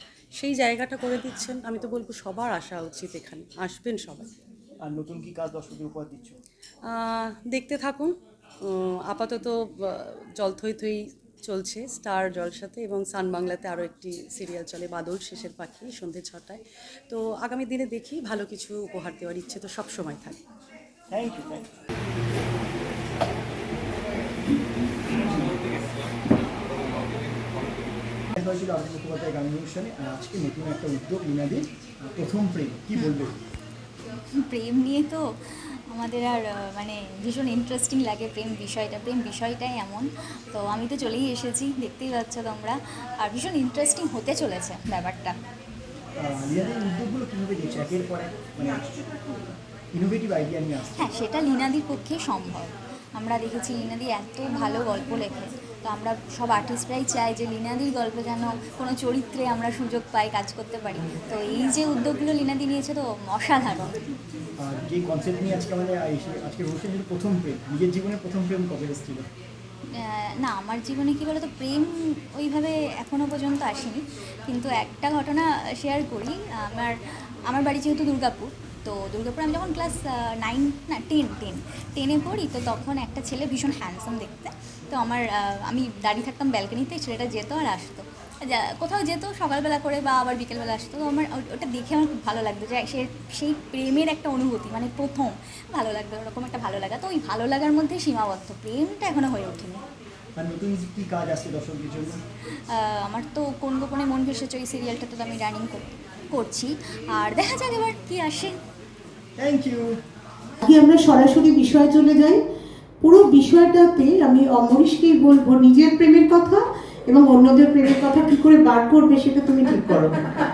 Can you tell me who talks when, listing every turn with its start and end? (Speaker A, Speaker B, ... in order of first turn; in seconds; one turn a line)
Speaker A: 0.3-4.3
Speaker B: 4.8-6.4
Speaker A: 6.9-20.4
Speaker B: 21.1-21.6
Speaker B: 25.1-25.6
Speaker B: 28.3-33.4
Speaker C: 34.3-35.2
Speaker C: 35.9-45.3
Speaker B: 46.2-48.9
Speaker B: 49.9-51.1
Speaker C: 51.0-63.9
Speaker B: 64.6-69.3
Speaker C: 70.0-76.9
Speaker C: 77.5-99.8
Speaker B: 100.4-102.2
Speaker C: 102.7-108.5
Speaker B: 109.4-110.0
Speaker D: 110.6-112.4
Speaker D: 113.0-120.2